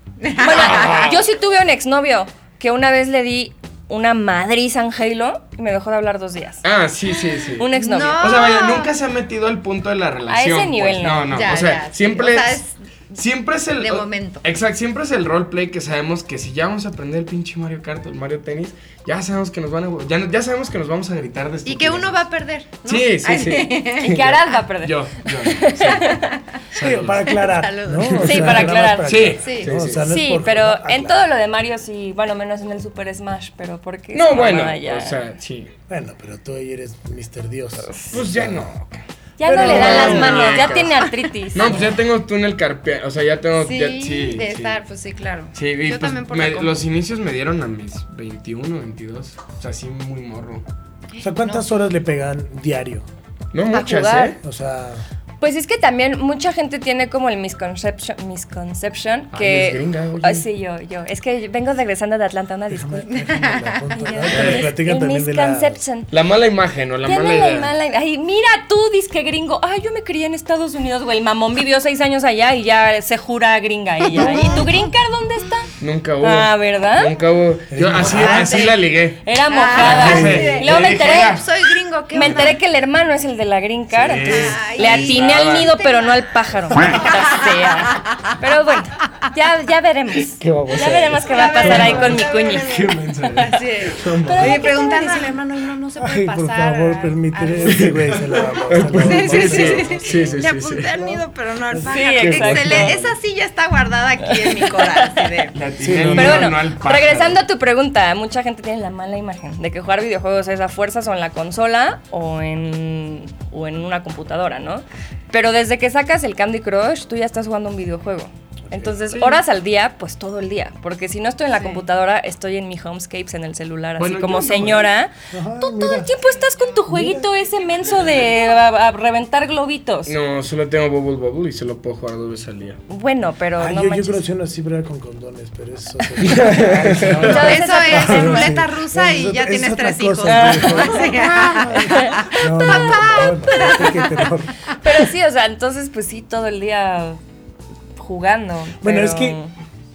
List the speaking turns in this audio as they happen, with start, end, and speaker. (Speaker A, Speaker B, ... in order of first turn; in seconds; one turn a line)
Speaker A: 0.2-1.1
Speaker B: 0.4-6.6
Speaker C: 0.4-1.2
Speaker C: 6.6-22.2
Speaker A: 7.3-8.9
Speaker B: 7.6-8.2
Speaker B: 10.3-11.3
Speaker A: 11.3-12.8
Speaker A: 13.8-14.4
Speaker A: 21.6-24.6
Speaker C: 22.8-27.4
Speaker B: 24.0-26.2
Speaker A: 26.1-26.5
Speaker D: 26.8-31.2
Speaker A: 27.2-28.6
Speaker C: 28.0-30.1
Speaker B: 28.2-29.1
Speaker A: 29.4-29.8
Speaker B: 30.0-35.2
Speaker C: 34.1-35.7
Speaker D: 35.9-38.7
Speaker C: 38.0-44.8
Speaker B: 39.4-41.8
Speaker D: 39.4-40.5
Speaker A: 39.5-41.1
Speaker A: 43.6-46.8
Speaker C: 45.5-50.6
Speaker A: 51.1-51.8
Speaker D: 51.2-53.1
Speaker C: 53.5-54.4
Speaker B: 53.7-54.4
Speaker D: 54.4-55.0
Speaker B: 55.4-63.2
Speaker C: 59.3-60.4
Speaker D: 62.7-65.8
Speaker A: 63.1-63.9
Speaker B: 63.9-66.1
Speaker C: 64.3-64.7
Speaker C: 66.1-67.7
Speaker B: 67.0-77.1
Speaker A: 74.1-74.8
Speaker C: 75.8-79.2
Speaker D: 77.7-78.7
Speaker A: 78.0-78.8
Speaker B: 79.2-81.3
Speaker A: 79.5-82.6
Speaker C: 79.7-81.4
Speaker D: 79.8-80.6
Speaker B: 82.1-92.7
Speaker C: 83.9-85.7
Speaker A: 84.2-88.1
Speaker C: 90.3-94.7
Speaker A: 91.3-105.6
Speaker D: 94.0-94.5
Speaker B: 94.2-95.3
Speaker D: 96.0-102.8
Speaker C: 97.6-101.0
Speaker B: 101.8-103.0
Speaker C: 102.2-103.1
Speaker B: 104.4-105.2
Speaker C: 105.5-107.4
Speaker D: 105.8-106.6
Speaker B: 106.1-130.2
Speaker C: 118.7-119.4
Speaker A: 121.5-121.8
Speaker C: 124.0-124.9
Speaker D: 125.3-126.1
Speaker D: 126.8-127.3
Speaker C: 130.1-132.8
Speaker B: 132.9-134.2
Speaker D: 133.6-144.6
Speaker C: 136.2-137.5
Speaker B: 137.2-138.6
Speaker A: 137.3-144.3
Speaker B: 140.3-144.2
Speaker B: 144.7-147.2
Speaker B: 147.9-149.5
Speaker D: 148.8-149.4